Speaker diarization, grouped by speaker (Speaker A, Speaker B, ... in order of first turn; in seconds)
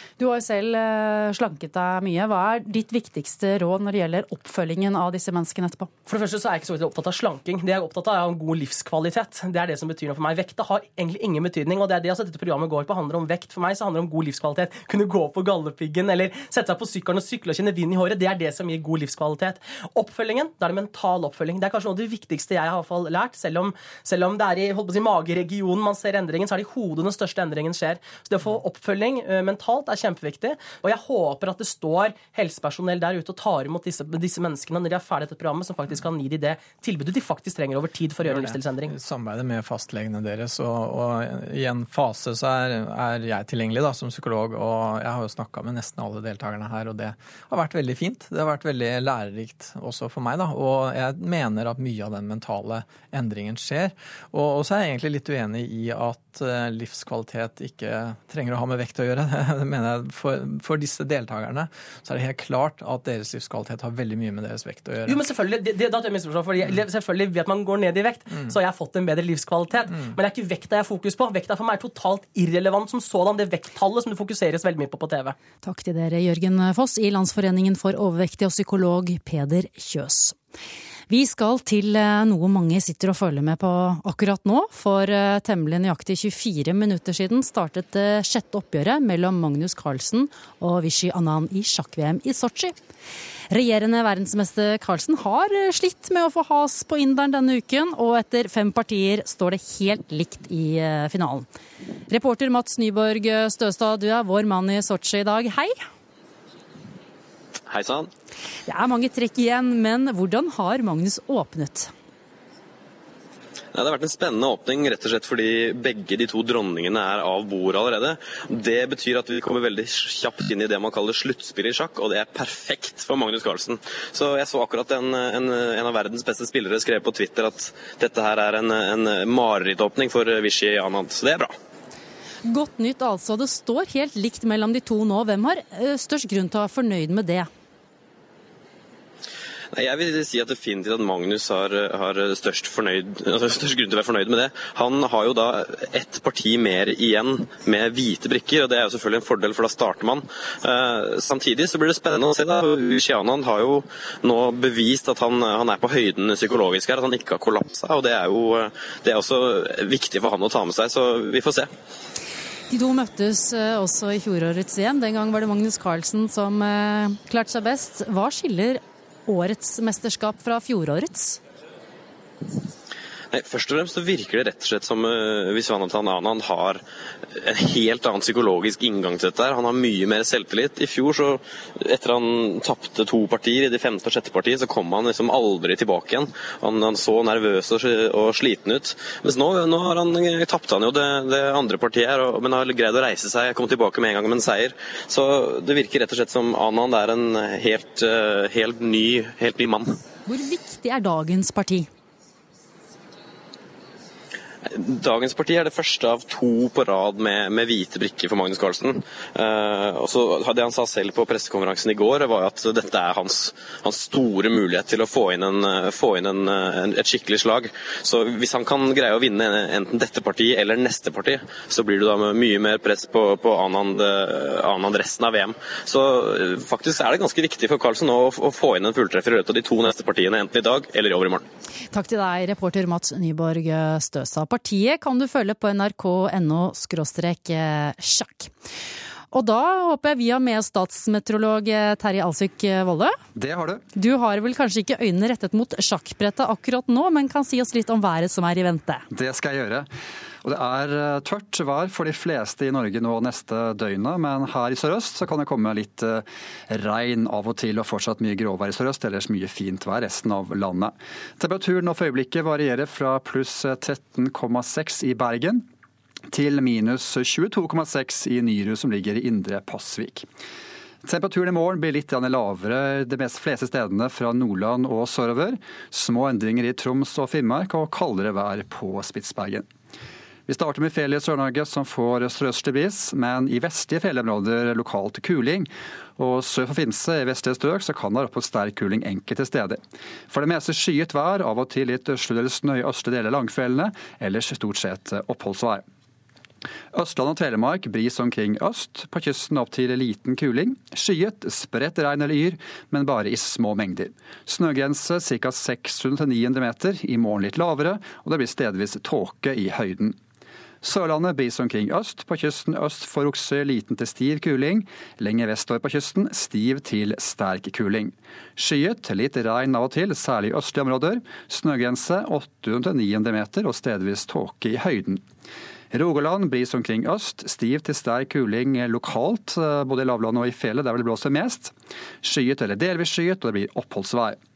Speaker A: 0.2-5.9, 75.6-80.3, 81.1-92.7, 93.5-101.5, 102.1-105.8, 108.7-111.9, 132.4-137.5, 162.7-171.4, 200.2-201.9, 231.9-238.5, 239.3-243.1, 243.9-249.0
Speaker B: 6.1-38.9, 65.0-75.3
Speaker C: 38.2-65.3, 69.9-70.1
Speaker D: 107.7-108.1, 113.7-131.5, 139.7-161.7, 173.3-199.9, 204.7-231.4
Speaker E: 243.3-243.8, 249.1-249.9, 250.4-265.6, 266.3-270.2, 271.0-279.7, 280.5-295.8, 296.9-310.1, 310.8-325.2, 325.9-334.4